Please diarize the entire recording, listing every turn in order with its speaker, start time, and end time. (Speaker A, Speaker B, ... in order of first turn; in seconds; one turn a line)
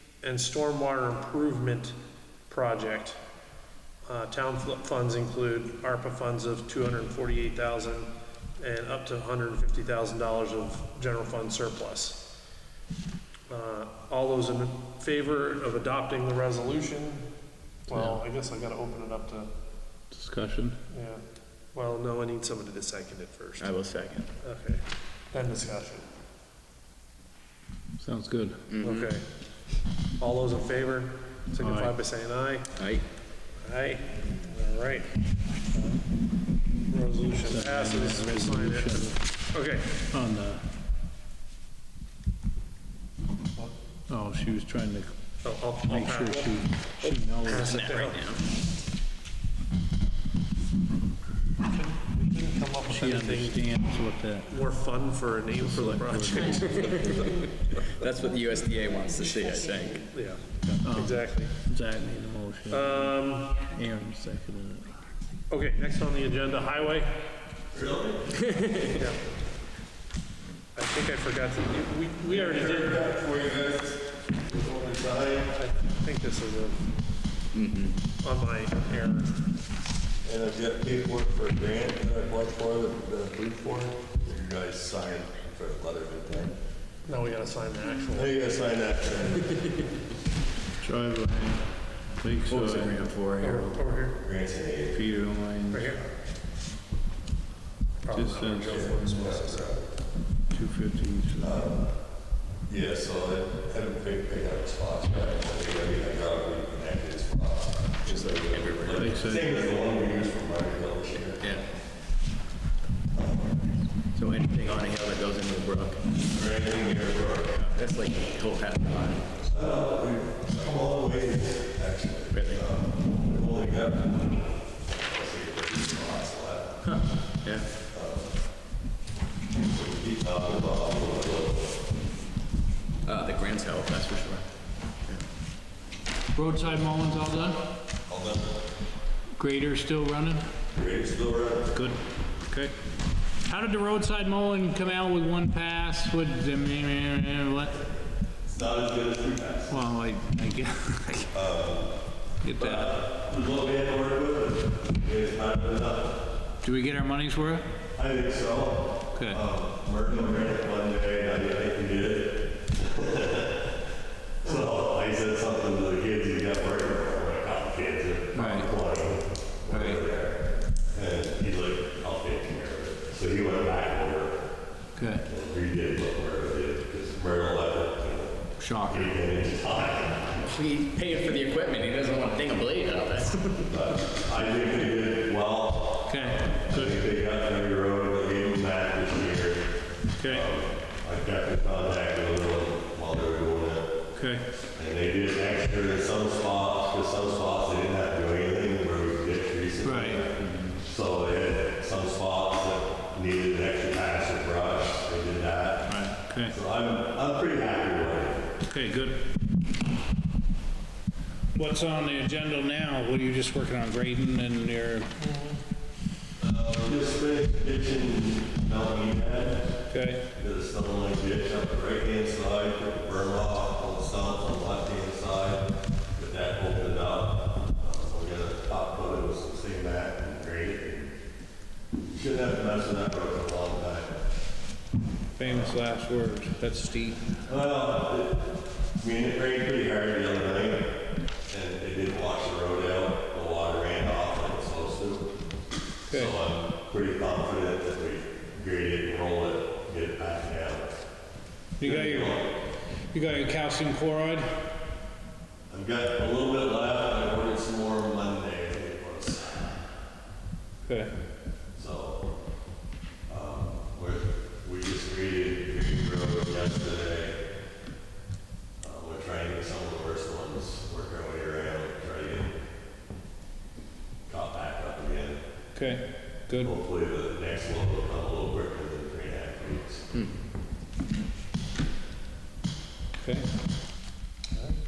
Speaker A: 0.2-1.9
Speaker A: 2.5-3.2
Speaker A: 4.0-12.2
Speaker A: 13.5-17.3
Speaker A: 17.9-19.5
Speaker B: 20.1-20.8
Speaker A: 20.9-21.2
Speaker A: 21.7-23.7
Speaker C: 23.6-24.3
Speaker A: 24.4-26.1
Speaker B: 28.0-28.6
Speaker C: 28.7-29.1
Speaker A: 28.8-29.2
Speaker A: 30.2-32.7
Speaker B: 31.6-31.9
Speaker C: 32.8-33.0
Speaker A: 33.6-35.1
Speaker A: 36.9-40.0
Speaker B: 37.4-39.2
Speaker B: 40.1-40.6
Speaker B: 44.1-45.1
Speaker A: 45.4-48.2
Speaker B: 45.8-48.0
Speaker C: 47.5-48.4
Speaker A: 51.6-53.7
Speaker B: 52.9-54.5
Speaker A: 54.5-57.3
Speaker B: 55.6-57.1
Speaker C: 56.5-60.1
Speaker A: 60.1-61.5
Speaker B: 60.8-63.1
Speaker A: 62.7-63.6
Speaker B: 63.7-64.9
Speaker A: 65.5-67.1
Speaker D: 67.7-68.7
Speaker C: 68.5-68.8
Speaker A: 68.7-69.2
Speaker A: 70.7-73.1
Speaker D: 72.3-75.6
Speaker A: 75.5-76.8
Speaker C: 77.5-78.0
Speaker A: 78.2-79.3
Speaker D: 80.2-86.5
Speaker A: 87.0-88.3
Speaker D: 88.1-89.9
Speaker B: 90.8-91.6
Speaker B: 92.2-93.0
Speaker C: 92.5-93.8
Speaker A: 93.4-94.2
Speaker D: 94.2-95.0
Speaker B: 94.9-95.9
Speaker A: 95.7-96.0
Speaker A: 98.0-99.8
Speaker B: 98.1-98.8
Speaker D: 98.7-99.9
Speaker B: 100.5-101.6
Speaker D: 101.4-101.9
Speaker D: 102.7-111.5
Speaker C: 108.0-109.3
Speaker B: 109.0-109.5
Speaker D: 113.1-113.8
Speaker C: 114.1-116.1
Speaker D: 116.3-117.5
Speaker C: 117.5-119.7
Speaker D: 119.5-126.9
Speaker C: 122.3-122.6
Speaker C: 126.8-127.7
Speaker D: 127.9-128.3
Speaker D: 129.6-131.9
Speaker C: 133.0-134.4
Speaker B: 136.3-137.6
Speaker D: 138.1-138.6
Speaker B: 139.3-140.4
Speaker D: 140.7-141.8
Speaker B: 141.7-142.0
Speaker B: 142.5-142.7
Speaker B: 143.4-147.8
Speaker D: 148.4-149.7
Speaker B: 149.7-151.3
Speaker D: 151.3-152.0
Speaker B: 152.4-152.9
Speaker D: 152.6-156.2
Speaker B: 156.6-157.7
Speaker D: 158.0-163.7
Speaker B: 159.1-159.4
Speaker D: 164.4-174.4
Speaker B: 168.3-168.7
Speaker B: 169.7-170.0
Speaker B: 175.0-175.2
Speaker D: 175.2-180.4
Speaker B: 178.6-179.1
Speaker C: 180.4-183.7
Speaker D: 183.7-189.7
Speaker B: 186.1-187.0
Speaker B: 190.2-190.5
Speaker D: 190.2-193.9
Speaker B: 194.1-194.4
Speaker D: 194.8-205.9
Speaker B: 199.8-200.8
Speaker B: 205.9-206.5
Speaker D: 206.5-208.5
Speaker B: 208.7-209.2
Speaker B: 211.5-215.1
Speaker A: 215.2-215.6
Speaker D: 216.4-219.7
Speaker B: 219.9-220.2
Speaker D: 220.3-231.1
Speaker D: 232.1-234.2
Speaker B: 235.4-237.3
Speaker D: 235.4-235.8
Speaker D: 237.4-241.0
Speaker D: 241.5-245.3
Speaker B: 246.1-246.3
Speaker D: 246.1-250.9
Speaker B: 251.8-252.4
Speaker D: 251.8-252.6
Speaker B: 253.1-254.5
Speaker D: 255.7-259.9
Speaker B: 260.8-261.1
Speaker D: 261.8-262.2
Speaker D: 263.3-267.4
Speaker D: 268.8-272.5
Speaker D: 274.3-275.4
Speaker B: 275.7-276.7
Speaker D: 276.6-280.0
Speaker B: 283.2-283.5